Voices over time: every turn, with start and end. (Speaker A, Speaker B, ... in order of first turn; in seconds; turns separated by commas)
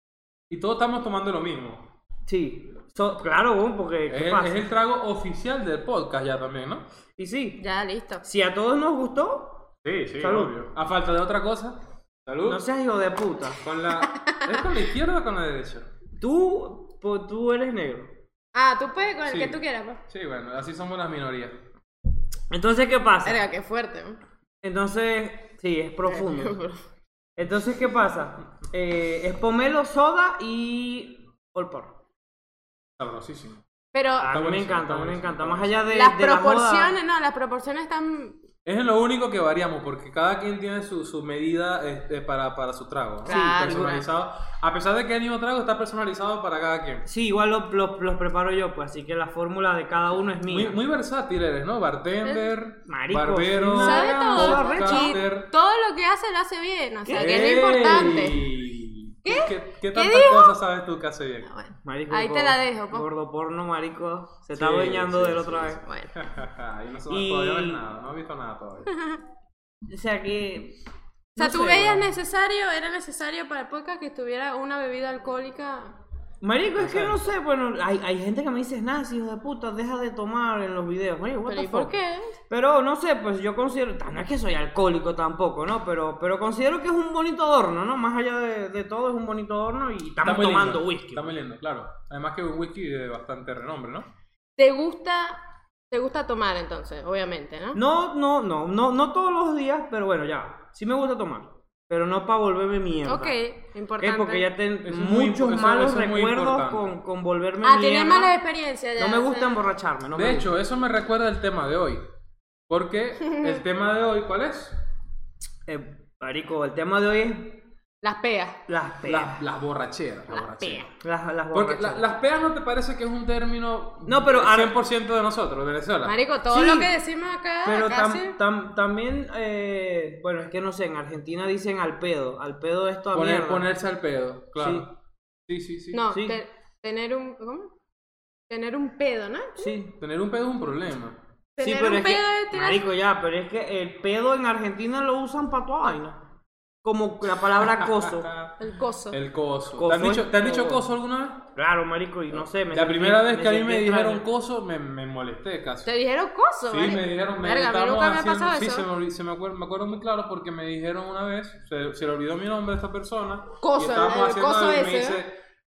Speaker A: 0.5-1.9, Speaker B: 2.3-4.7, Speaker A: 4.1-6.8, Speaker B: 7.2-7.6, Speaker C: 7.6-8.2, Speaker B: 8.2-9.6, Speaker A: 9.8-12.6, Speaker B: 10.2-10.6, Speaker B: 12.4-13.6, Speaker A: 13.6-15.9, Speaker C: 14.1-14.4, Speaker B: 16.2-18.1, Speaker C: 18.6-20.0, Speaker A: 19.2-21.6, Speaker B: 22.5-23.4, Speaker C: 23.2-24.2, Speaker B: 24.6-26.6, Speaker C: 26.1-26.8, Speaker B: 27.4-32.0, Speaker A: 33.0-33.6, Speaker C: 33.9-34.3, Speaker A: 34.2-35.9, Speaker B: 34.2-37.0, Speaker C: 35.9-38.4, Speaker A: 38.6-47.0, Speaker B: 43.2-44.0, Speaker C: 43.2-44.0, Speaker B: 47.1-50.8, Speaker A: 50.5-55.5, Speaker B: 52.9-55.2, Speaker C: 53.8-58.4, Speaker B: 57.0-57.8, Speaker A: 57.1-61.5, Speaker C: 59.2-60.6, Speaker C: 61.4-63.1, Speaker B: 61.8-65.8, Speaker A: 64.5-68.9, Speaker C: 65.8-66.1, Speaker B: 67.1-67.8, Speaker C: 68.9-69.2, Speaker B: 69.9-70.8, Speaker B: 71.3-72.1, Speaker C: 71.4-76.0, Speaker B: 76.4-82.0, Speaker A: 76.8-77.2, Speaker C: 81.5-82.3, Speaker B: 82.5-91.4, Speaker A: 90.2-94.1, Speaker C: 94.6-97.8, Speaker B: 97.7-103.3, Speaker C: 103.0-104.5, Speaker B: 104.0-108.3, Speaker A: 104.8-106.9, Speaker C: 107.6-109.6, Speaker B: 109.0-110.5, Speaker A: 110.1-112.0, Speaker A: 112.7-114.8, Speaker B: 115.7-117.7, Speaker C: 118.0-118.6, Speaker B: 118.7-119.4, Speaker A: 119.0-120.9, Speaker C: 120.3-120.9, Speaker B: 121.0-122.0, Speaker A: 121.5-126.2, Speaker B: 124.0-124.8, Speaker C: 126.0-128.4, Speaker B: 126.5-126.9, Speaker B: 127.6-133.7, Speaker A: 133.1-134.9, Speaker B: 134.6-134.8, Speaker A: 135.5-136.0, Speaker C: 135.9-137.7, Speaker B: 136.1-136.4, Speaker C: 138.5-139.7, Speaker B: 139.6-139.9, Speaker A: 140.0-141.2, Speaker C: 141.6-142.8, Speaker B: 141.6-146.2, Speaker B: 146.8-148.3, Speaker A: 147.6-148.6, Speaker C: 148.6-149.2, Speaker A: 149.1-151.5, Speaker B: 149.8-150.8, Speaker B: 151.6-154.2, Speaker A: 152.7-155.9, Speaker C: 155.8-158.8, Speaker A: 156.7-165.3, Speaker C: 163.6-165.2